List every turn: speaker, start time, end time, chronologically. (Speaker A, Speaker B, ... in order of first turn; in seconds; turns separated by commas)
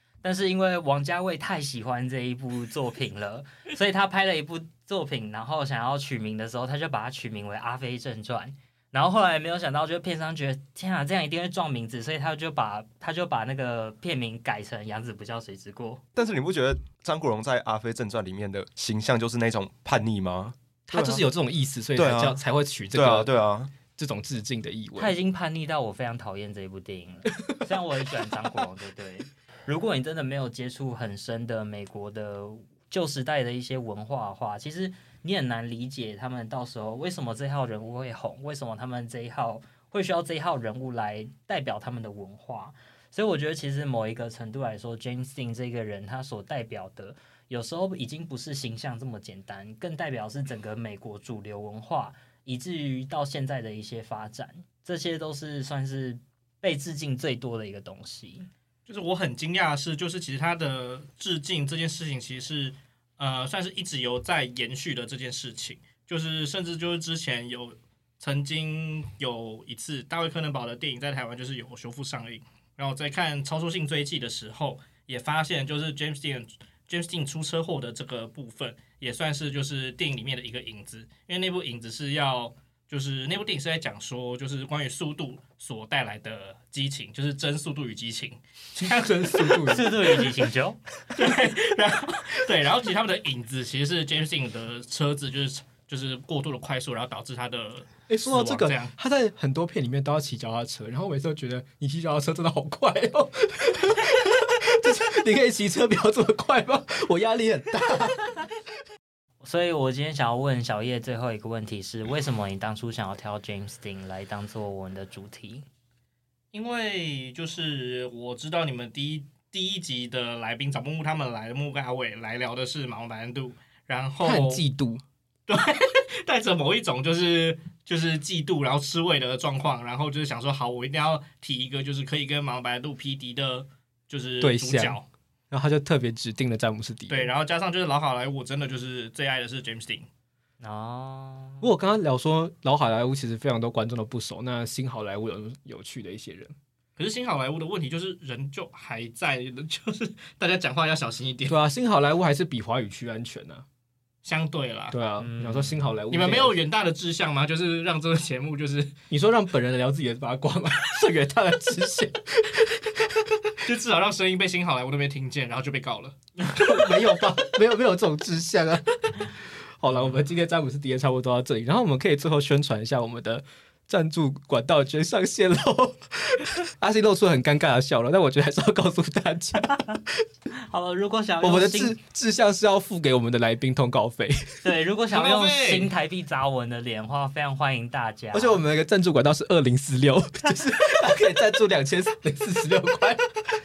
Speaker A: 0.2-16.0, Speaker B: 16.1-21.2, Speaker C: 20.9-25.1, Speaker B: 21.9-22.4, Speaker B: 22.9-23.7, Speaker A: 25.0-58.5, Speaker D: 58.9-89.8, Speaker C: 88.8-90.2, Speaker A: 89.6-90.8, Speaker D: 91.1-98.9, Speaker C: 98.1-108.5, Speaker A: 109.4-115.6, Speaker D: 116.5-124.6, Speaker C: 124.2-125.0, Speaker D: 125.5-135.1, Speaker C: 134.4-135.0, Speaker C: 135.5-137.3, Speaker D: 137.1-140.1, Speaker A: 140.6-141.6, Speaker C: 141.6-146.5, Speaker D: 147.0-151.6, Speaker C: 151.4-153.6, Speaker D: 154.2-155.0, Speaker C: 154.9-156.6, Speaker A: 155.2-155.9, Speaker D: 156.1-159.0, Speaker C: 159.1-163.5, Speaker D: 163.6-166.7, Speaker C: 166.5-180.2, Speaker A: 180.6-182.0, Speaker C: 181.4-184.6, Speaker A: 184.6-188.6, Speaker D: 185.1-185.9, Speaker C: 188.3-193.3